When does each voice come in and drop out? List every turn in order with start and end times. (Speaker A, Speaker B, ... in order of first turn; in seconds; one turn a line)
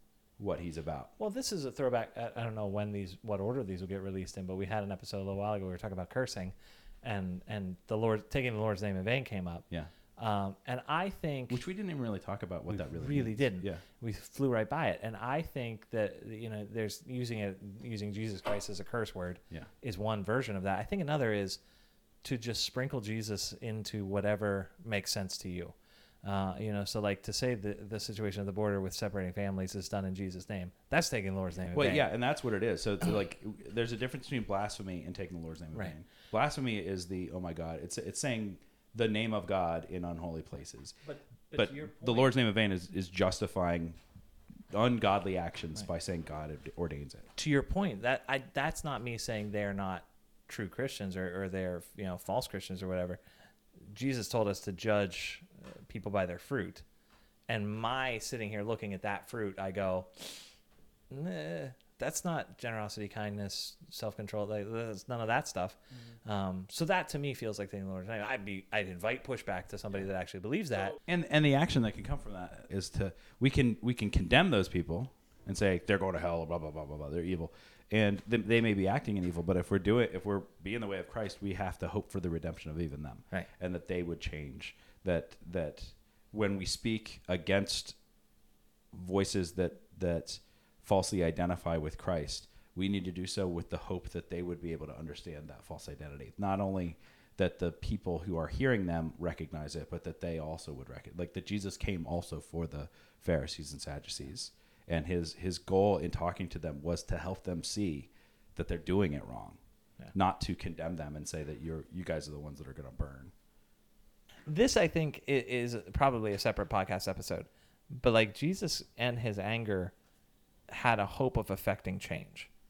Speaker A: 0.4-1.1
Speaker B: 1.2-9.6
Speaker B: 10.2-11.6
Speaker A: 11.5-13.8
Speaker B: 12.7-21.6
Speaker B: 22.2-32.0
Speaker A: 31.7-41.0
Speaker B: 41.0-42.3
Speaker A: 41.5-44.0
Speaker A: 44.7-47.3
Speaker B: 47.4-53.2
Speaker B: 53.9-56.8
Speaker B: 57.5-60.4
Speaker B: 61.1-71.0
Speaker A: 71.0-88.0
Speaker A: 88.9-109.6
Speaker A: 110.1-113.3
Speaker B: 114.5-119.9
Speaker B: 120.7-122.5